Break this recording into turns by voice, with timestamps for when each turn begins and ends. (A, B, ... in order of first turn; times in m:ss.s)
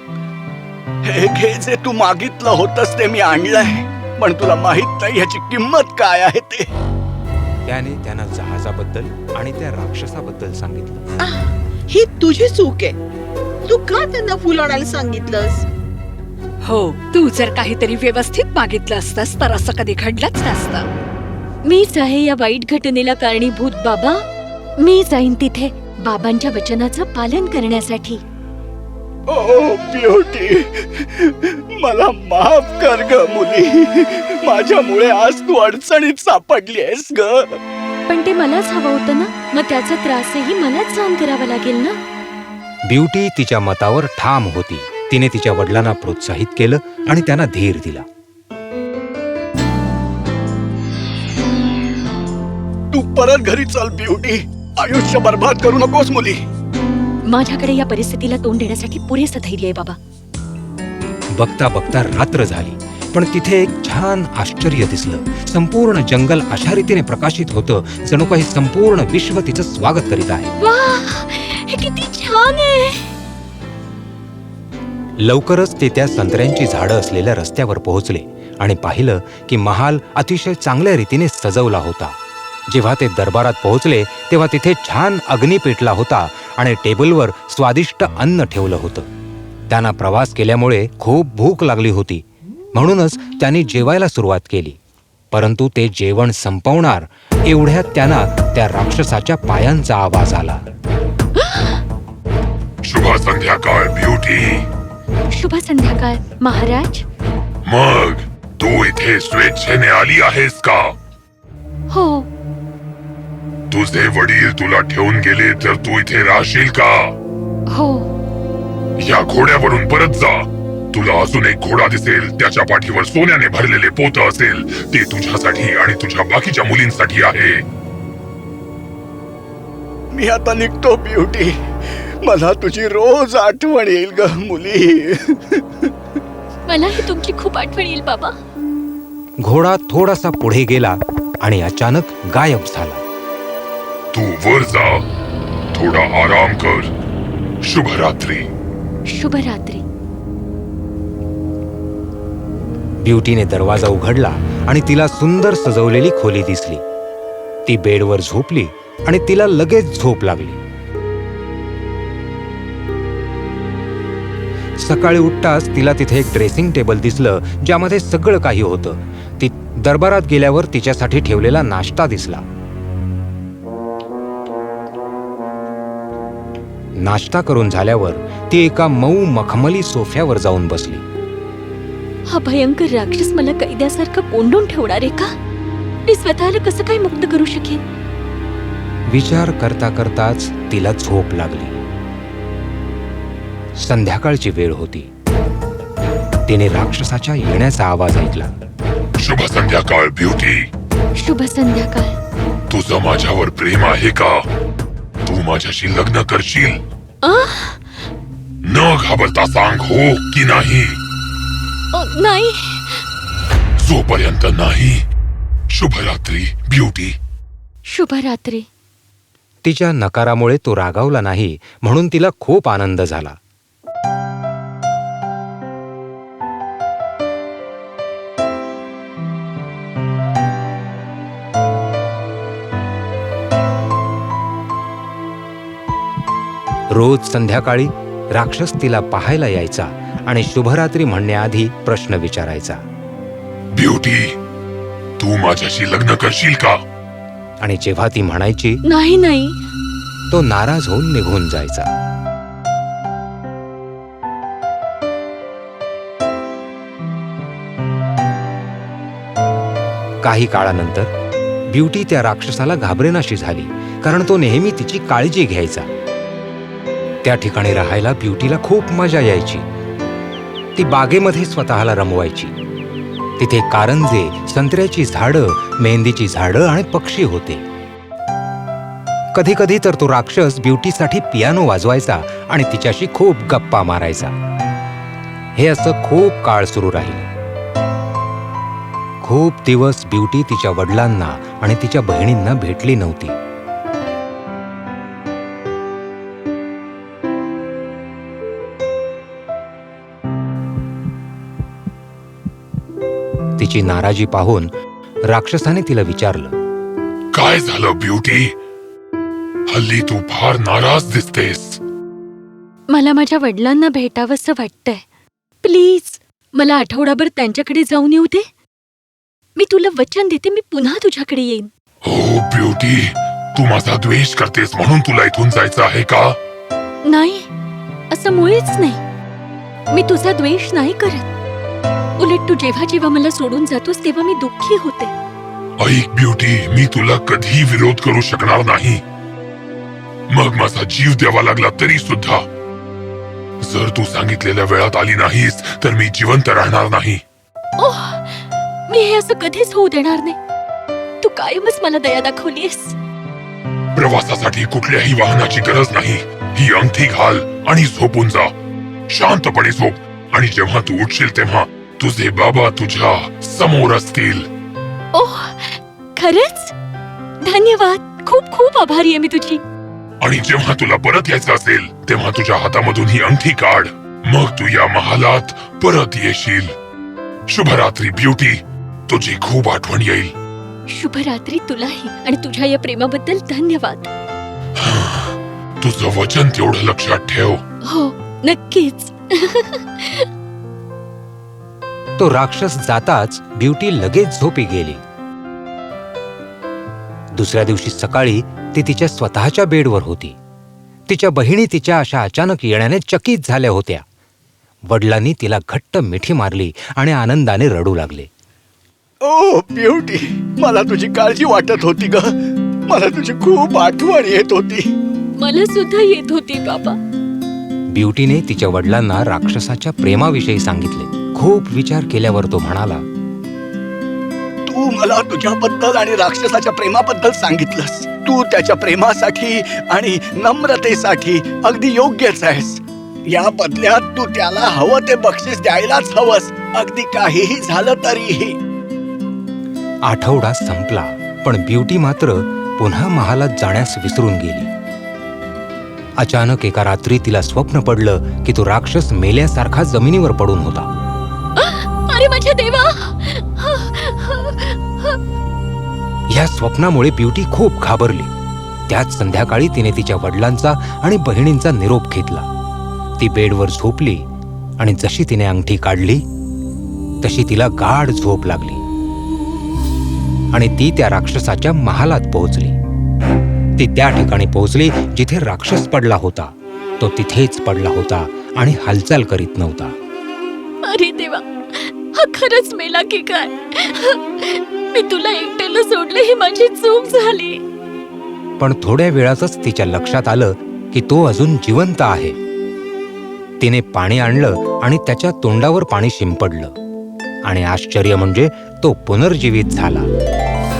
0:01.0-0:06.7 A
0:07.7-0:11.0 B
0:11.2-0:13.0 C
0:13.7-0:15.6 C
0:16.6-0:20.9 D
0:21.6-0:24.2 E
0:24.8-0:28.2 E
0:29.3-0:37.6 A
0:38.1-0:42.0 E
0:42.9-0:48.1 B
0:52.9-0:56.4 A
0:57.3-1:00.0 E
1:01.3-1:10.5 B
1:10.6-1:13.1 E
1:15.2-1:22.2 B
1:22.7-1:29.1 B
1:29.7-1:34.8 B
1:35.3-1:40.6 B
1:41.4-1:41.8 E
1:42.8-1:44.7 F
1:45.3-1:47.1 E
1:47.6-1:51.0 F
1:51.9-1:52.3 E
1:53.7-1:57.1 F
1:57.7-1:58.1 E
1:59.0-2:07.6 F
2:10.1-2:15.9 A
2:16.7-2:18.4 E
2:19.4-2:23.0 B
2:24.1-2:25.0 F
2:25.7-2:26.9 F
2:27.6-2:28.5 F
2:29.1-2:29.8 E
2:33.0-2:36.8 B
2:37.7-2:40.6 B
2:44.8-2:52.5 B
2:57.0-3:01.0 B
3:02.3-3:05.3 E
3:06.1-3:07.8 E
3:09.1-3:11.8 B
3:13.8-3:15.1 B
3:16.5-3:18.5 B
3:19.2-3:20.7 F
3:21.2-3:22.2 E
3:22.7-3:24.4 F
3:25.2-3:26.8 F
3:27.2-3:27.8 E
3:28.6-3:31.0 F
3:31.9-3:33.1 E
3:33.8-3:35.0 F
3:35.7-3:37.2 F
3:37.8-3:38.7 E
3:39.6-3:43.4 B
3:56.9-4:02.8 B
4:03.8-4:04.3 F
4:05.2-4:06.8 F
4:07.6-4:08.8 B
4:08.8-4:09.6 E
4:10.3-4:11.9 B
4:20.2-4:21.1 B
4:21.7-4:25.9 B
4:27.2-4:29.7 B
4:30.8-4:32.5 B
4:33.4-4:37.6 B
4:39.4-4:44.3 B
4:45.6-4:47.3 B
4:49.2-4:53.4 B
5:03.6-5:04.7 B
5:05.3-5:06.5 B
5:07.3-5:08.5 F
5:09.7-5:11.8 F
5:12.9-5:15.0 E
5:15.6-5:18.4 E
5:19.6-5:21.7 E
5:22.0-5:26.4 F
5:27.0-5:27.5 E
5:28.1-5:29.0 E
5:29.9-5:31.3 E
5:32.2-5:35.1 E
5:35.8-5:39.0 F
5:40.3-5:42.4 F
5:43.6-5:47.2 F
5:47.8-5:50.4 E
5:51.2-5:53.0 E
5:54.0-5:58.5 F
5:59.1-6:04.5 F
6:05.1-6:06.7 E
6:07.4-6:09.6 E
6:10.2-6:16.7 F
6:17.5-6:20.3 F
6:20.9-6:24.1 E
6:24.8-6:27.6 F
6:27.8-6:30.3 E
6:32.2-6:35.0 B
6:37.4-6:40.4 B
6:41.1-6:44.0 B
6:44.9-6:48.3 B
6:49.2-6:52.3 A
6:52.9-6:54.9 A
6:55.4-6:57.0 E
6:57.9-7:03.0 B
7:04.7-7:18.6 A
7:20.1-7:24.7 B
7:26.2-7:30.9 B
7:31.6-7:35.2 E
7:36.3-7:38.3 B
7:38.9-7:42.5 B
7:43.2-7:44.2 B
7:44.8-7:46.2 B
7:47.2-7:48.8 B
7:50.5-7:52.8 B
7:53.8-8:00.0 B
8:00.8-8:07.6 E
8:08.6-8:12.4 B
8:13.6-8:16.7 B
8:17.5-8:20.1 B